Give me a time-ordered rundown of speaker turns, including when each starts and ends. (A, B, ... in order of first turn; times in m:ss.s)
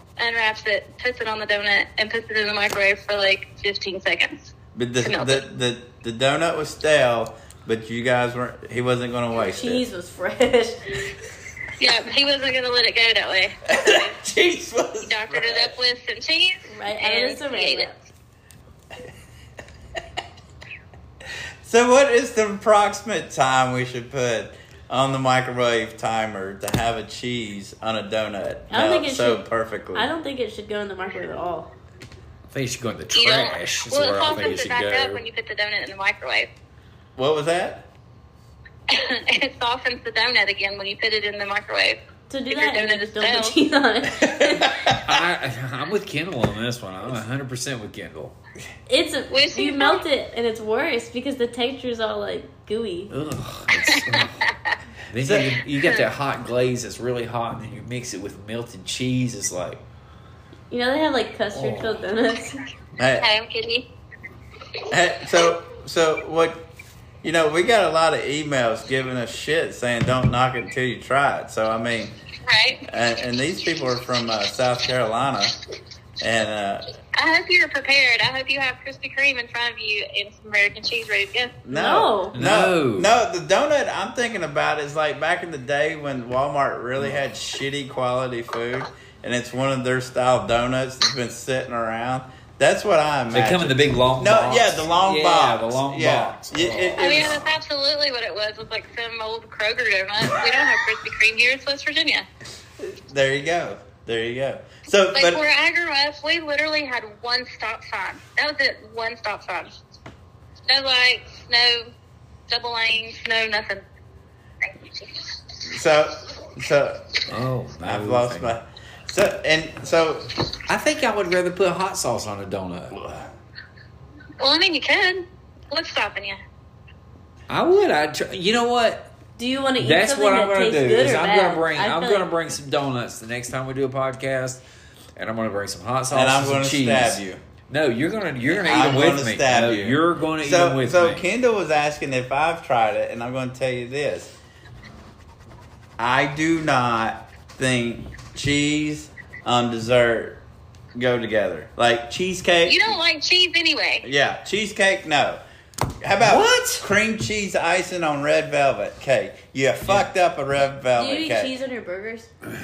0:00.2-0:05.4 A
0:04.7-0:09.8 B
0:09.4-0:11.2 C
0:11.8-0:14.1 A
0:13.7-0:15.8 B
0:15.0-0:17.9 A
0:16.7-0:18.0 C
0:21.6-0:30.1 B
0:28.7-0:31.7 C
0:32.5-0:35.2 D
0:33.1-0:36.5 A
0:37.2-0:37.8 B
0:38.9-0:42.0 A
0:42.3-0:44.7 C
0:42.5-0:43.5 A
0:44.2-0:45.2 B
0:45.0-0:48.4 D
0:48.9-0:53.1 C
0:49.3-0:50.0 A
0:53.1-0:54.5 D
0:53.9-0:54.2 A
0:55.1-0:59.8 D
0:55.2-0:55.5 B
0:55.7-0:56.0 A
1:00.7-1:02.6 C
1:01.5-1:02.0 D
1:03.0-1:03.3 B
1:03.2-1:03.8 A
1:04.9-1:06.6 B
1:07.2-1:12.1 B
1:12.4-1:12.8 A
1:12.9-1:15.6 B
1:16.2-1:16.8 B
1:17.1-1:21.6 A
1:21.6-1:37.5 B
1:21.7-1:22.3 C
1:22.3-1:23.2 D
1:33.3-1:37.5 D
1:37.0-1:42.3 A
1:42.8-1:45.4 B
1:45.1-1:49.7 A
1:50.7-1:51.9 A
1:52.5-1:53.8 A
1:54.8-1:55.4 A
1:55.6-1:57.3 B
1:57.3-1:58.6 D
1:57.8-2:00.3 B
2:00.7-2:03.0 D
2:02.9-2:03.3 B
2:04.4-2:06.4 A
2:07.5-2:09.1 D
2:09.4-2:12.3 C
2:09.8-2:14.6 D
2:15.2-2:21.2 D
2:16.1-2:17.4 B
2:18.5-2:24.3 B
2:26.0-2:30.4 B
2:30.9-2:32.8 B
2:32.6-2:34.1 A
2:34.0-2:35.4 B
2:36.0-2:41.5 B
2:36.2-2:36.8 D
2:40.9-2:42.3 C